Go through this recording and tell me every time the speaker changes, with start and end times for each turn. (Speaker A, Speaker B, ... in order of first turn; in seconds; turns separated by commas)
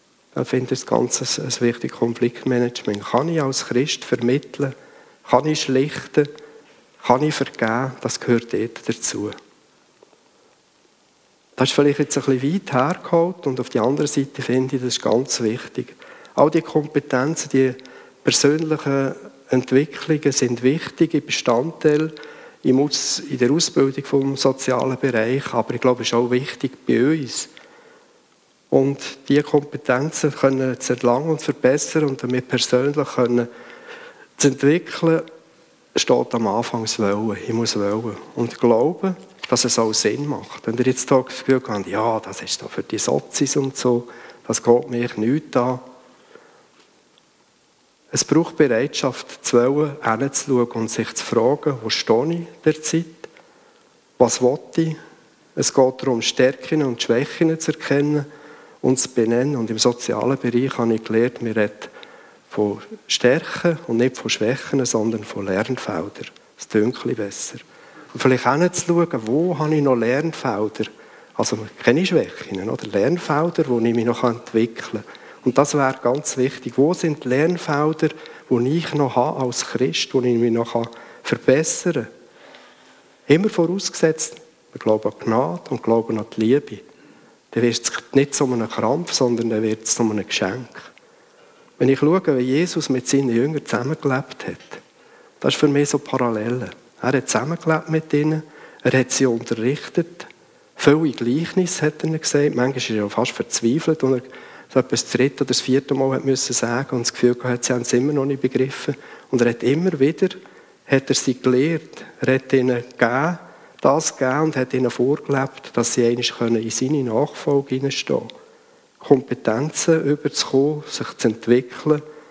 Speaker A: 0.3-4.7, Speaker A: 5.2-6.3, Speaker A: 7.0-9.3, Speaker A: 11.6-27.5, Speaker A: 28.7-33.5, Speaker A: 34.4-35.3, Speaker A: 36.0-45.8, Speaker A: 48.1-53.3, Speaker A: 54.2-55.0, Speaker A: 55.6-58.3, Speaker A: 58.8-61.9, Speaker A: 62.5-67.6, Speaker A: 68.1-82.1, Speaker A: 83.3-86.8, Speaker A: 87.5-90.9, Speaker A: 91.8-94.8, Speaker A: 95.4-118.3, Speaker A: 119.0-122.0